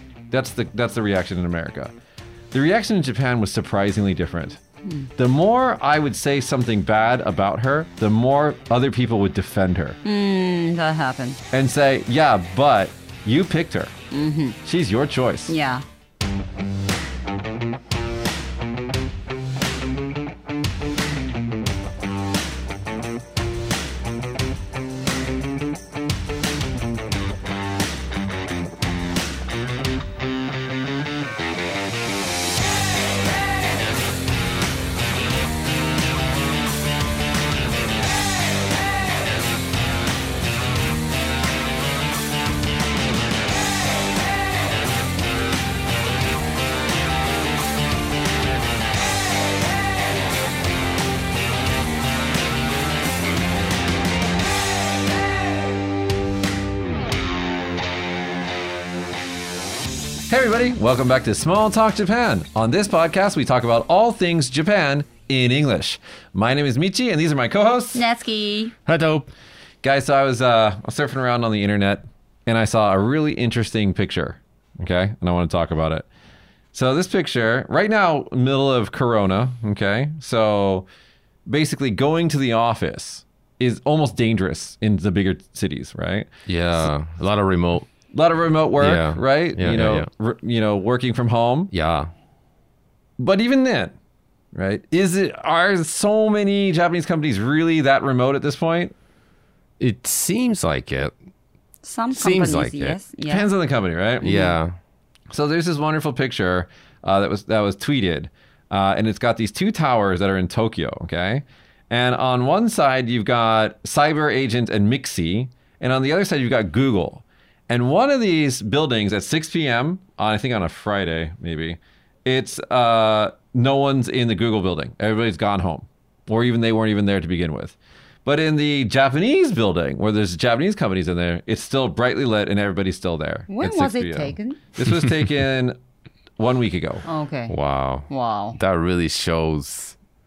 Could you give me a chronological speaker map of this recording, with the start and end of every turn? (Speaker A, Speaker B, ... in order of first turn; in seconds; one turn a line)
Speaker A: 0.3-1.9
Speaker A: 2.5-4.6
Speaker A: 5.2-10.0
Speaker B: 10.0-11.4
Speaker A: 11.5-13.9
Speaker B: 14.1-14.6
Speaker A: 14.6-15.6
Speaker B: 15.5-15.8
Speaker A: 60.3-68.0
Speaker B: 67.9-68.7
Speaker C: 68.8-69.3
Speaker A: 69.8-76.0
Speaker A: 76.7-80.8
Speaker A: 81.5-86.3
Speaker C: 86.5-87.9
Speaker A: 88.1-91.7
Speaker C: 88.8-90.1
Speaker C: 91.7-92.1
Speaker A: 93.2-93.9
Speaker A: 94.5-98.9
Speaker C: 99.8-101.1
Speaker B: 101.8-103.5
Speaker C: 102.1-103.0
Speaker A: 103.2-104.5
Speaker C: 104.2-104.8
Speaker A: 105.3-135.8
Speaker B: 133.5-134.6
Speaker A: 136.4-137.0
Speaker B: 137.1-137.5
Speaker C: 137.5-139.9
Speaker B: 138.1-138.6